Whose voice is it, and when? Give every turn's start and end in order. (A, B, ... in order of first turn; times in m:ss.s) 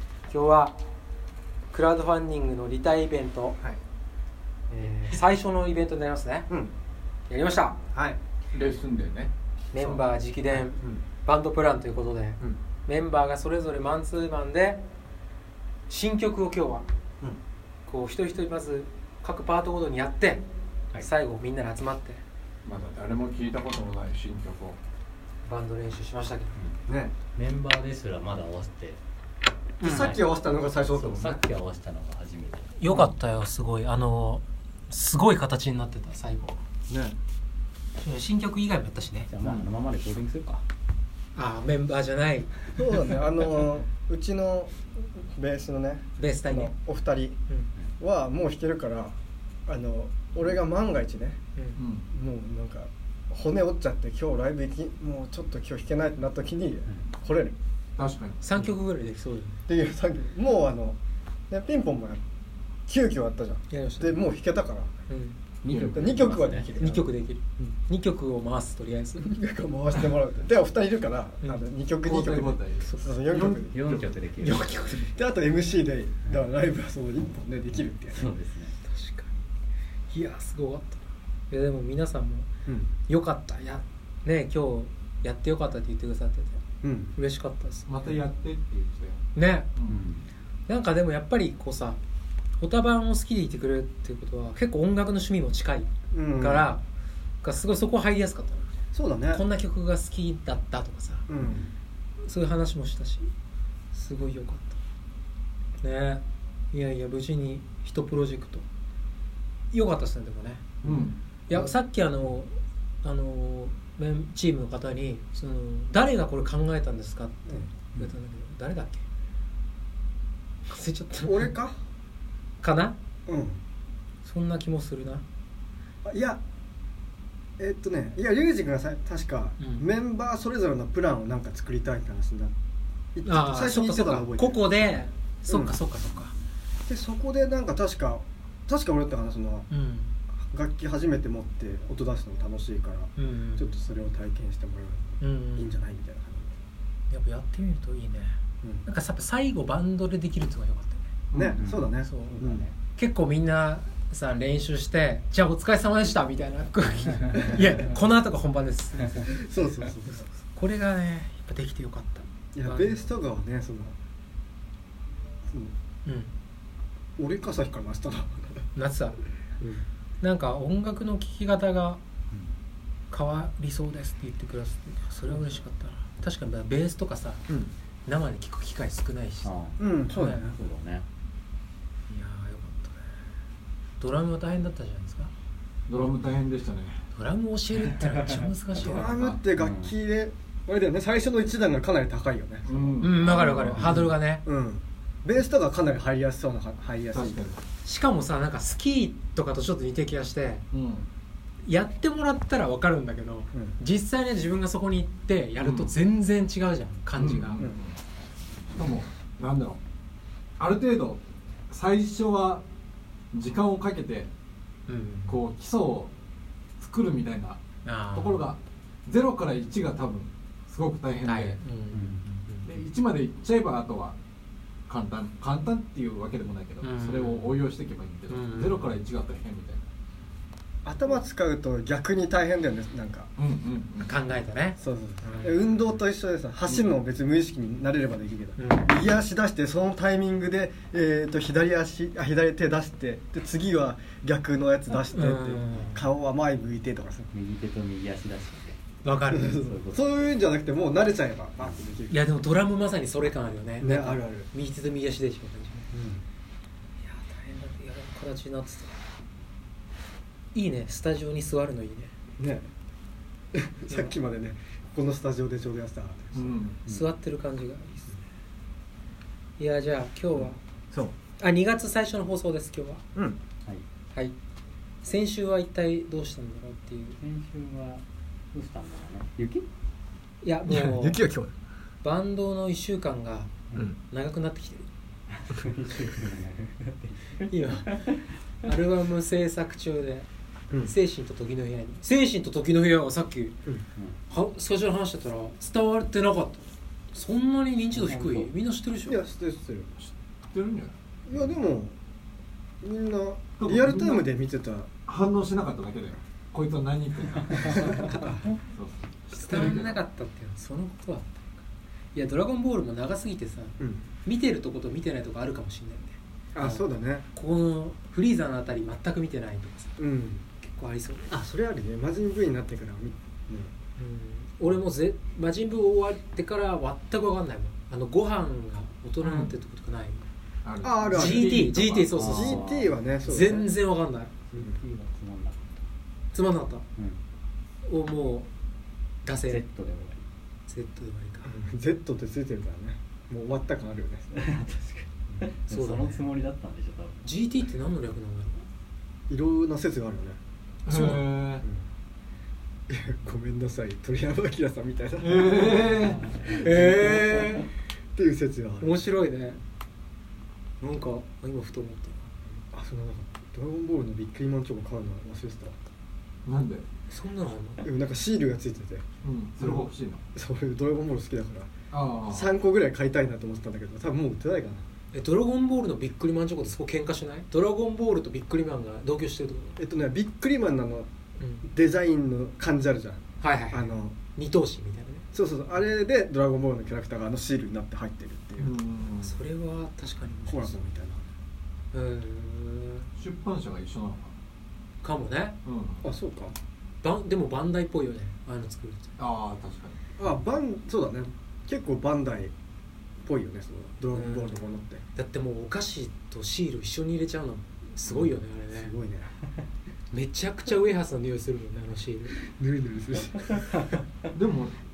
0:00.3-0:00.8 A
0:01.7-0:03.6 A
0:04.7-0:05.2 B
0:04.7-0:06.5 A
0:07.3-0:07.8 A
0:08.5-0:10.0 C
0:09.7-0:14.8 A
0:15.9-0:16.9 A
0:17.9-0:20.4 A
0:21.0-0:22.2 A
0:22.6-0:24.8 C
0:25.4-0:26.6 A
0:26.9-0:27.2 B
0:27.4-0:29.0 D
0:29.8-0:31.4 B
0:29.8-0:32.7 D
0:29.8-0:30.1 A
0:32.8-0:36.6 A
0:36.9-0:37.2 B
0:38.0-0:39.3 A
0:39.3-0:40.6 D
0:39.4-0:39.7 B
0:41.4-0:42.7 A
0:42.8-0:47.4 B
0:46.2-0:46.7 A
0:48.0-0:49.2 B
0:49.7-0:51.4 B
0:51.6-0:51.8 A
0:51.8-0:52.1 C
0:52.1-0:57.6 B
0:58.0-0:58.4 C
0:58.4-0:59.6 A
0:59.7-1:01.0 B
1:01.5-1:02.2 B
1:02.9-1:04.9 B
1:03.7-1:04.3 A
1:05.1-1:05.4 A
1:05.6-1:07.0 D
1:05.7-1:06.2 C
1:05.7-1:07.1 B
1:06.8-1:09.3 A
1:09.2-1:13.8 B
1:12.0-1:14.2 C
1:12.8-1:13.1 A
1:13.7-1:14.7 D
1:14.4-1:15.1 A
1:15.0-1:18.3 B
1:17.7-1:18.8 D
1:18.8-1:19.4 A
1:20.1-1:22.5 A
1:22.7-1:22.9 B
1:23.1-1:26.6 A
1:26.8-1:27.1 B
1:27.2-1:27.9 A
1:27.9-1:29.2 C
1:29.4-1:29.7 A
1:29.8-1:30.0 C
1:29.9-1:30.3 D
1:30.7-1:32.0 A
1:32.6-1:36.8 A
1:36.1-1:36.7 B
1:37.4-1:38.7 A
1:38.9-1:39.4 B
1:39.3-1:41.3 A
1:41.3-1:41.7 B
1:42.2-1:43.3 A
1:43.9-1:44.8 A
1:45.8-1:48.7 A
1:49.7-1:50.7 A
1:50.8-1:51.2 C
1:50.8-1:51.7 B
1:51.5-1:59.0 A
2:00.7-2:01.5 A
2:01.2-2:01.8 B
2:02.6-2:03.0 A
2:03.3-2:03.6 B
2:04.2-2:05.2 A
2:06.0-2:06.4 B
2:07.6-2:12.5 B
2:09.6-2:09.8 A
2:13.2-2:14.7 B
2:13.2-2:16.3 A
2:15.5-2:15.8 B
2:16.1-2:16.4 D
2:16.9-2:19.7 B
2:19.7-2:20.2 A
2:20.4-2:26.6 B
2:23.2-2:23.8 A
2:25.2-2:25.8 A
2:27.1-2:31.1 A
2:31.3-2:31.6 C
2:31.3-2:32.7 B
2:31.6-2:31.9 D
2:32.0-2:43.1 A
2:37.3-2:38.0 B
2:39.2-2:40.2 B
2:42.6-2:44.0 B
2:46.0-2:46.3 A
2:47.2-2:48.7 B
2:48.8-2:49.2 A
2:50.2-2:52.0 A
2:53.1-2:57.4 A
2:58.1-2:59.5 A
2:59.4-2:59.8 D
2:59.8-3:00.6 B
3:00.1-3:00.4 A
3:00.4-3:01.1 D
3:02.1-3:03.0 A
3:04.0-3:05.3 A
3:05.9-3:07.1 C
3:07.2-3:09.2 A
3:08.2-3:08.4 D
3:08.8-3:13.0 B
3:08.8-3:09.4 C
3:09.6-3:09.9 D
3:12.7-3:14.1 C
3:13.0-3:14.4 A
3:14.4-3:17.4 B
3:17.1-3:17.6 C
3:17.8-3:20.6 A
3:20.7-3:21.1 C
3:21.6-3:27.6 A
3:25.6-3:25.9 C
3:27.2-3:28.0 C
3:28.7-3:29.8 C
3:30.6-3:32.6 C
3:33.3-3:34.3 C
3:34.9-3:35.4 A
3:35.3-3:36.1 C
3:36.8-3:37.6 C
3:37.8-3:38.5 A
3:38.1-3:41.6 C
3:41.2-3:42.8 A
3:41.9-3:42.2 D
3:42.6-3:44.2 C
3:44.9-3:49.9 C
3:46.8-3:47.6 A
3:48.3-3:48.9 A
3:50.8-3:53.3 B
3:53.4-3:54.2 C
3:54.0-3:55.6 A
3:54.8-4:07.3 B
3:58.6-3:59.0 A
4:05.1-4:06.1 A
4:07.3-4:10.3 D
4:09.0-4:09.6 A
4:09.3-4:12.2 B
4:12.1-4:15.9 A
4:13.8-4:14.5 B
4:15.9-4:16.2 B
4:17.0-4:19.0 A
4:20.5-4:22.1 A
4:22.4-4:22.7 B
4:23.5-4:26.6 B
4:23.9-4:24.1 A
4:26.3-4:26.8 C
4:26.9-4:28.2 A
4:29.6-4:30.6 A
4:30.4-4:31.2 B
4:31.4-4:33.0 A
4:35.0-4:37.2 A
4:37.2-4:39.7 D
4:40.4-4:41.2 A
4:40.7-4:41.5 B
4:42.0-4:43.5 A
4:44.1-4:44.9 A
4:45.3-4:48.2 D
4:47.5-4:48.1 A
4:48.6-4:50.3 A
4:50.8-4:53.6 A
4:54.3-4:59.2 A
4:57.9-4:58.5 D
4:59.1-4:59.9 B
5:00.0-5:01.0 C
5:01.3-5:02.0 B
5:02.8-5:04.9 B
5:03.6-5:04.2 C
5:05.1-5:08.2 C
5:07.8-5:08.4 A
5:07.8-5:08.4 B
5:08.7-5:10.0 C
5:09.4-5:11.6 A
5:12.2-5:20.0 A
5:13.8-5:14.0 B
5:16.6-5:17.3 B
5:20.0-5:20.4 B
5:20.6-5:21.3 A
5:21.3-5:23.7 B
5:24.0-5:30.2 A
5:29.2-5:29.5 C
5:30.6-5:32.1 C
5:30.8-5:31.6 B
5:31.1-5:32.7 A
5:32.1-5:32.9 D
5:32.2-5:33.7 B
5:33.2-5:34.3 A
5:34.5-5:35.8 D
5:36.3-5:36.8 A
5:37.8-5:38.5 A
5:39.2-5:39.6 A
5:39.4-5:40.2 D
5:40.7-5:41.6 A
5:41.4-5:44.4 B
5:44.3-5:47.3 D
5:45.7-5:46.2 A
5:47.2-5:48.6 A
5:49.3-5:50.4 B
5:50.9-5:51.6 C
5:50.9-5:51.3 A
5:52.9-5:57.6 B
5:55.2-5:56.3 C
5:56.5-5:57.7 A
5:58.2-5:59.0 B
5:58.8-5:59.6 A
6:00.8-6:02.3 A
6:02.7-6:05.8 B
6:06.5-6:06.9 C
6:07.1-6:07.8 A
6:07.8-6:09.1 B
6:09.2-6:10.2 C
6:09.6-6:11.7 B
6:11.9-6:12.5 C
6:12.3-6:14.8 B
6:15.1-6:19.8 A
6:19.8-6:21.1 B
6:21.4-6:21.7 A
6:21.6-6:24.2 B
6:23.4-6:25.3 A
6:25.3-6:28.7 B
6:28.6-6:29.4 C
6:29.2-6:30.8 A
6:30.5-6:31.2 B
6:31.9-6:33.1 A
6:33.2-6:34.4 C
6:35.0-6:35.6 A
6:35.6-6:36.1 C
6:36.0-6:36.6 B
6:37.0-6:39.1 A
6:39.2-6:40.0 C
6:40.2-6:42.5 B
6:43.2-6:45.0 B
6:44.1-6:44.5 A
6:45.2-6:48.9 A
6:48.1-6:49.3 B
6:50.1-6:52.4 A
6:52.4-6:53.9 B
6:54.3-6:54.8 C